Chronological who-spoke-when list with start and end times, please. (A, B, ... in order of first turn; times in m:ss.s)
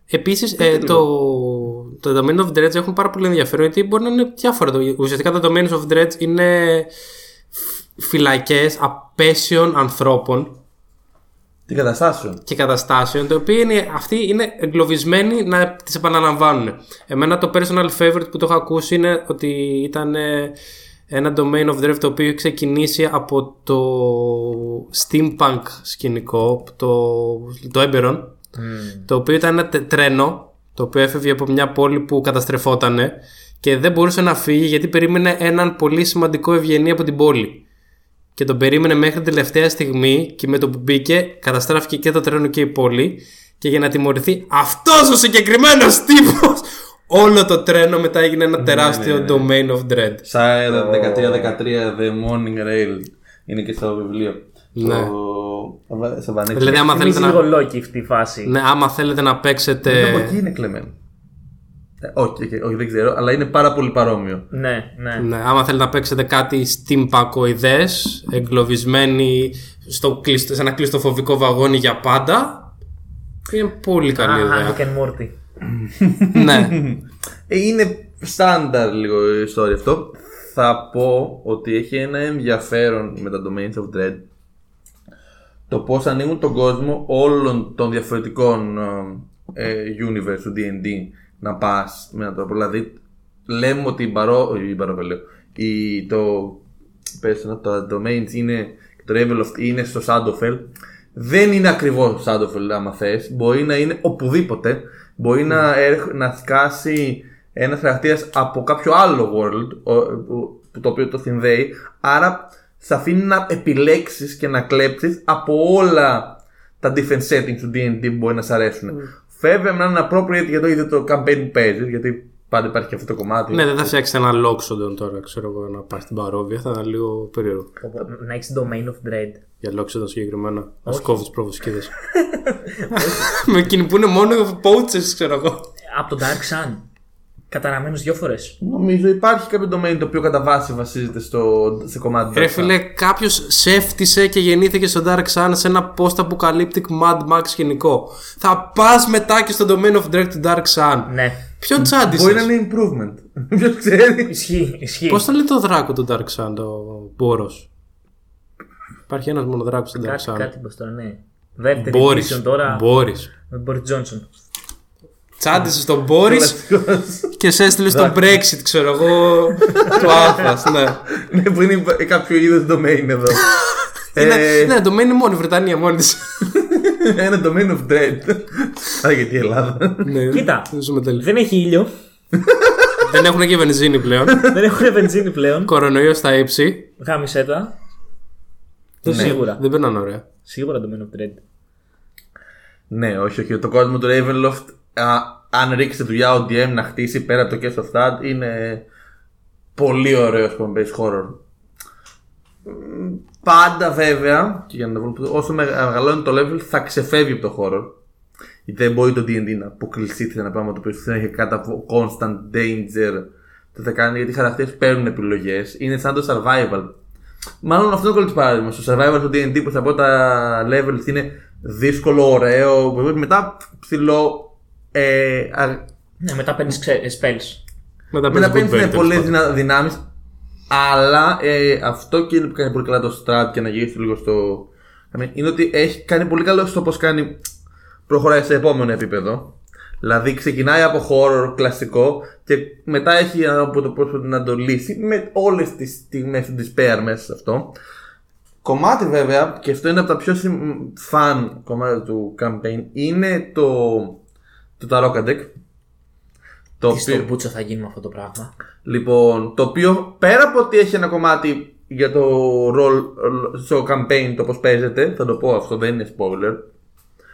0:00.1-0:06.9 A
0:00.6-0:01.0 B
0:07.5-0:10.5 A
0:11.7-0:12.4 B
0:12.5-0:20.6 A
0:21.1-0:28.3 A
0:28.6-0:29.1 C
0:29.1-0:37.6 A
0:38.3-0:50.2 A
0:48.6-0:49.5 B
0:50.2-0:57.2 B
0:54.7-0:55.1 A
0:56.5-0:57.4 A
0:56.7-0:58.5 C
0:58.4-1:00.4 A
0:59.8-1:00.9 B
1:02.0-1:04.5 B
1:04.5-1:05.2 C
1:05.2-1:12.7 A
1:13.5-1:14.8 A
1:14.1-1:15.3 C
1:15.9-1:24.2 B
1:16.3-1:16.8 A
1:25.7-1:36.6 B
1:37.2-2:03.9 B
2:03.5-2:07.7 A
2:07.8-2:09.4 C
2:09.6-2:12.0 A
2:10.8-2:11.2 C
2:12.2-2:13.2 C
2:13.0-2:15.7 A
2:15.9-2:16.8 C
2:17.5-2:18.6 C
2:18.6-2:22.7 B
2:22.3-2:32.5 A
2:31.1-2:31.4 C
2:31.8-2:34.3 B
2:34.3-2:35.2 C
2:35.1-2:37.7 A
2:39.1-2:40.5 A
2:40.0-2:42.8 C
2:41.8-2:43.3 A
2:43.5-2:44.3 C
2:45.4-2:46.6 A
2:46.2-2:47.4 B
2:47.4-2:51.0 A
2:47.9-2:48.3 B
2:49.7-2:53.4 B
2:54.1-2:54.8 B
2:54.1-2:56.5 A
2:56.6-3:00.1 B
3:00.0-3:01.2 A
3:00.3-3:01.9 C
3:02.4-3:02.8 B
3:03.0-3:04.5 A
3:04.4-3:05.7 C
3:05.7-3:06.9 A
3:07.0-3:07.7 C
3:09.0-3:10.2 A
3:09.0-3:09.6 C
3:09.0-3:09.3 B
3:10.4-3:11.4 C
3:12.9-3:18.8 B
3:19.8-3:21.4 B
3:22.6-3:28.0 B
3:28.6-3:36.9 B
3:37.6-3:45.9 B
3:46.2-3:47.6 C
3:48.1-3:49.3 A
3:48.3-3:50.0 B
3:50.7-3:57.4 B
3:58.1-4:07.7 B
4:08.6-4:14.2 B
4:14.8-4:15.5 B
4:16.8-4:17.3 B
4:16.9-4:18.5 C
4:18.8-4:26.6 B